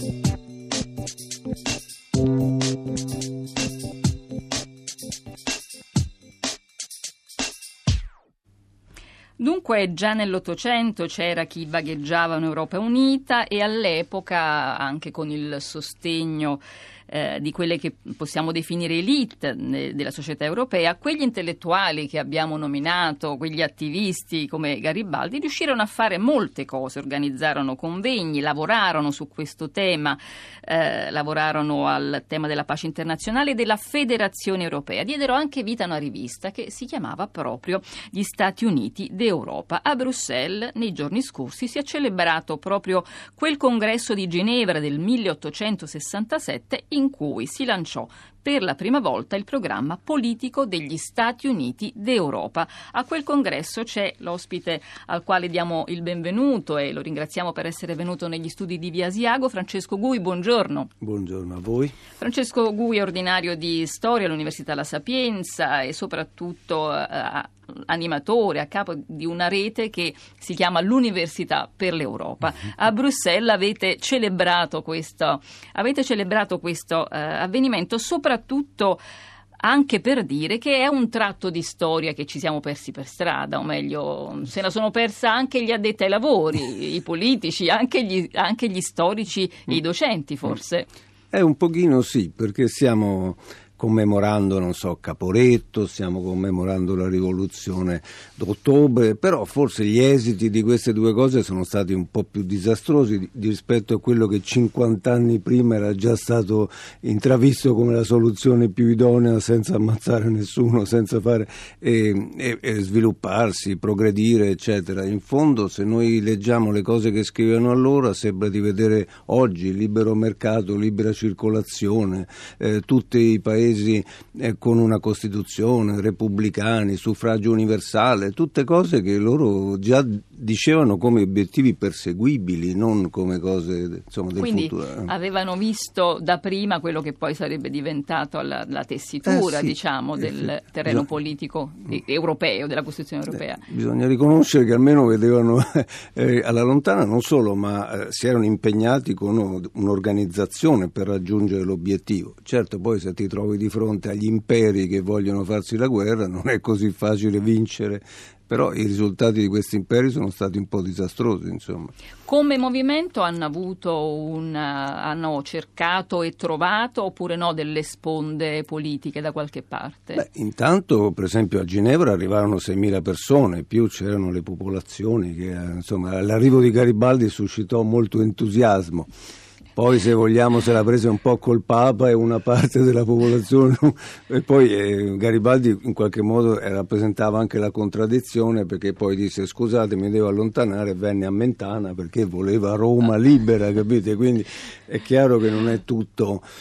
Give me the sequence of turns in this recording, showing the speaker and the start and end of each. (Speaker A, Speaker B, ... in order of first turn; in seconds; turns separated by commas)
Speaker A: 9.4-60.9, Speaker B: 61.0-62.0, Speaker A: 62.2-79.0, Speaker A: 79.6-90.9, Speaker B: 91.3-135.1, Speaker A: 134.4-143.7, Speaker B: 139.2-141.1, Speaker B: 143.3-161.9, Speaker A: 162.2-170.2, Speaker B: 170.2-179.1, Speaker B: 179.8-196.4